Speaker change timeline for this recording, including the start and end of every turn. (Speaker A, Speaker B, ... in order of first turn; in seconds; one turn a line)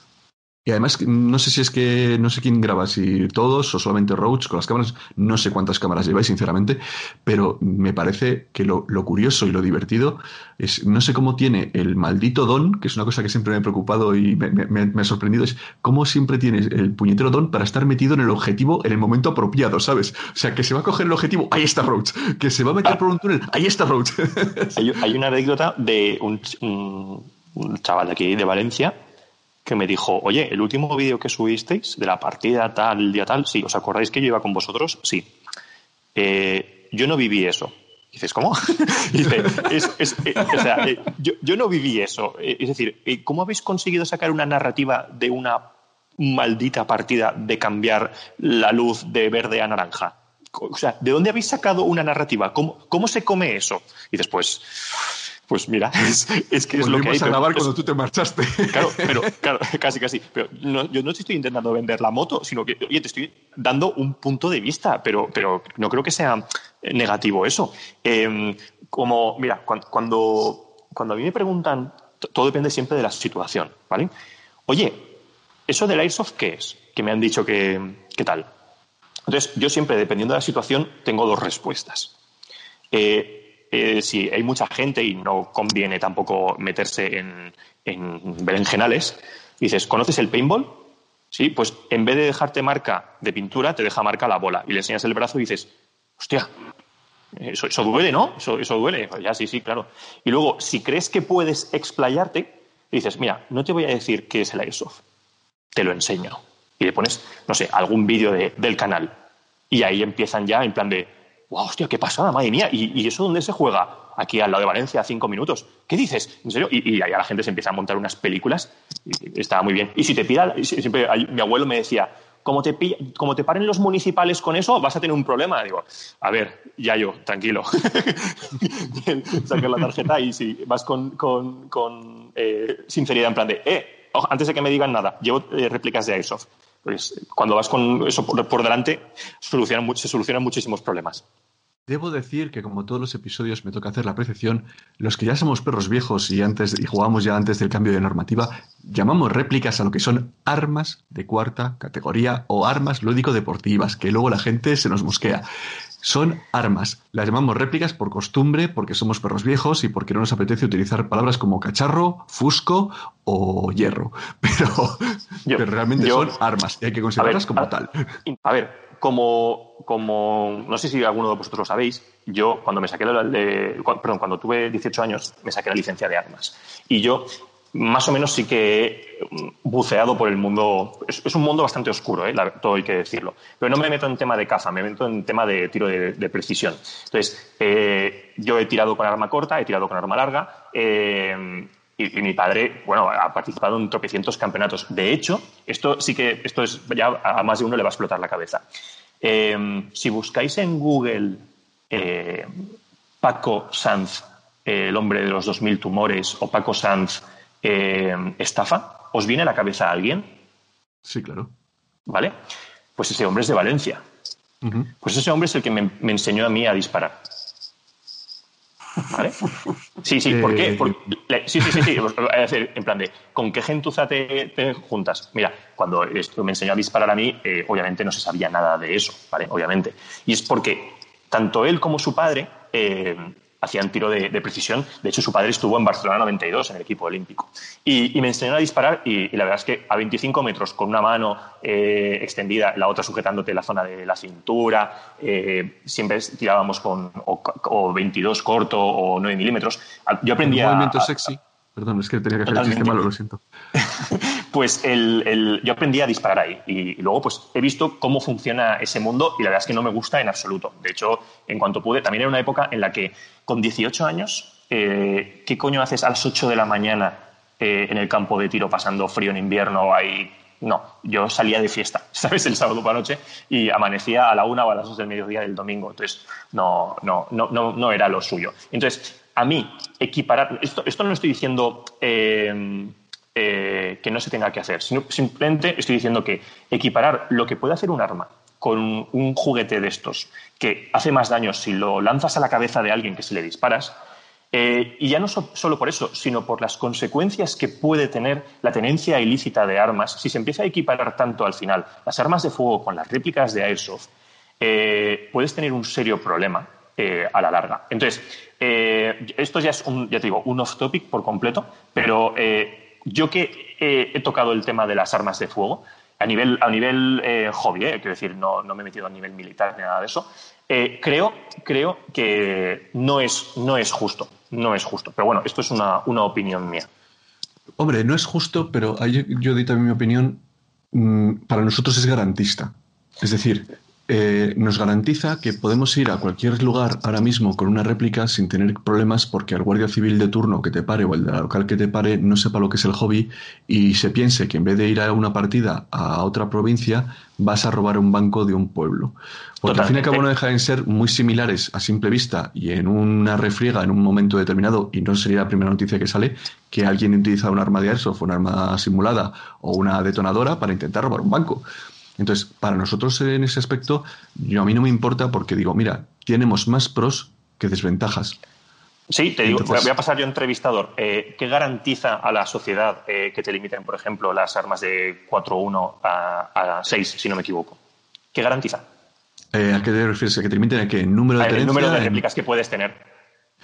Speaker A: 0.7-24.8
Speaker B: 24.8-29.0
Speaker B: 29.6-35.3
Speaker B: 36.1-57.7
Speaker A: 56.8-59.2
Speaker B: 58.7-74.1
Speaker B: 74.7-78.5
Speaker B: 79.3-82.1
Speaker B: 82.9-96.5
Speaker B: 97.3-105.0
Speaker B: 105.8-109.2
Speaker B: 109.7-141.2
Speaker A: 141.9-155.5
Speaker A: 156.0-168.0
Speaker B: 165.4-166.4
Speaker B: 167.2-167.7
Speaker B: 168.3-198.6
Speaker B: 199.2-202.5
Speaker B: 203.2-210.4
Speaker A: 211.1-211.5
Speaker B: 212.1-212.3
Speaker B: 213.0-214.0
Speaker A: 214.6-214.9
Speaker B: 215.0-217.2
Speaker B: 219.1-219.4
Speaker B: 220.0-251.3
Speaker A: 220.3-221.0
Speaker A: 250.4-253.4
Speaker B: 252.5-253.1
Speaker B: 253.8-294.0
Speaker B: 294.5-304.1
Speaker B: 304.6-326.9
Speaker A: 327.8-361.6
Speaker B: 349.7-350.2
Speaker A: 362.2-368.4
Speaker B: 369.1-377.8
Speaker A: 369.5-369.9
Speaker B: 378.3-378.9
Speaker A: 379.5-382.2
Speaker B: 381.4-383.0